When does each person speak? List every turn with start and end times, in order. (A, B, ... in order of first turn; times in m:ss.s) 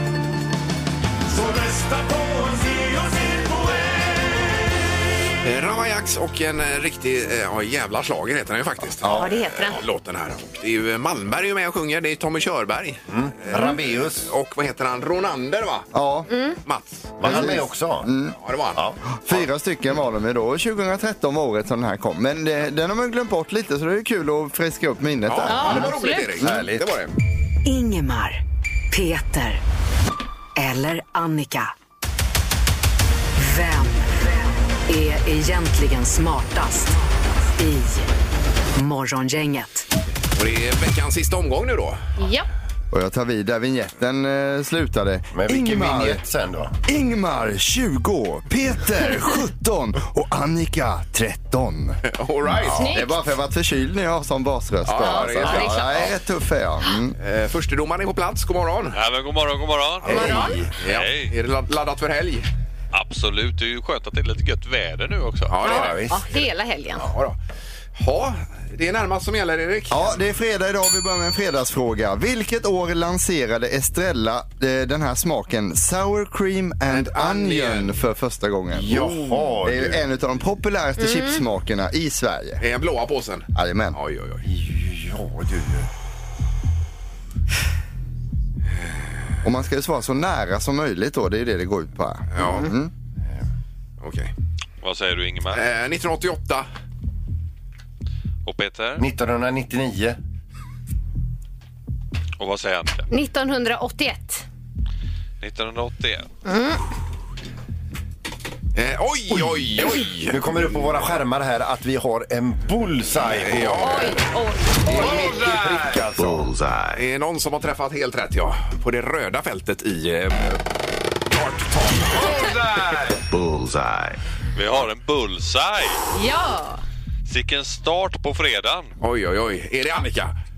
0:01.3-0:04.8 A
0:05.4-0:15.9 B
0:09.0-0:09.3 C
0:09.1-0:09.8 D
0:13.1-0:14.3 E
0:15.9-0:16.3 C
0:16.3-0:16.6 D
0:16.6-0:17.5 B
0:17.2-0:18.1 E
0:17.2-0:18.3 C
0:18.4-0:18.8 B
0:18.8-0:19.4 E
0:19.2-0:25.9 C
0:25.2-0:27.1 B
0:25.5-0:26.4 D
0:26.4-0:26.9 E
0:27.6-0:29.6 F
0:30.6-0:31.7 F
0:33.4-0:38.1 F
0:38.8-0:39.8 F
0:40.3-0:42.0 B
0:42.2-0:42.5 D
0:42.9-0:46.2 C
0:45.3-0:46.7 E
0:46.9-0:52.0 C
0:52.1-0:52.9 B
0:52.7-0:57.2 C
0:52.7-0:53.1 D
0:54.8-0:56.1 B
0:55.0-0:55.9 D
0:57.2-0:59.0 B
0:58.9-1:01.3 G
1:00.0-1:00.7 E
1:00.1-1:00.6 D
1:00.8-1:02.5 B
1:02.9-1:05.8 G
1:05.5-1:06.0 B
1:05.6-1:06.2 E
1:05.6-1:07.0 D
1:07.0-1:07.4 B
1:08.0-1:10.2 B
1:09.9-1:22.6 C
1:16.9-1:17.9 B
1:18.7-1:20.1 E
1:21.0-1:21.4 D
1:22.6-1:24.4 B
1:23.6-1:24.0 C
1:24.4-1:25.9 E
1:29.4-1:32.9 C
1:32.4-1:32.6 B
1:34.0-1:34.3 B
1:34.8-1:35.6 G
1:35.5-1:36.6 B
1:38.4-1:39.0 G
1:39.0-1:40.2 E
1:42.4-1:43.1 G
1:43.1-1:44.4 D
1:45.4-1:46.3 G
1:46.4-1:46.8 D
1:48.7-1:50.4 B
1:50.3-1:54.2 E
1:53.3-1:54.2 B
1:53.8-1:55.3 D
1:54.8-1:56.6 E
1:56.9-2:00.6 B
2:01.3-2:02.8 B
2:04.5-2:06.0 G
2:06.1-2:06.8 D
2:07.2-2:08.9 G
2:09.0-2:10.3 B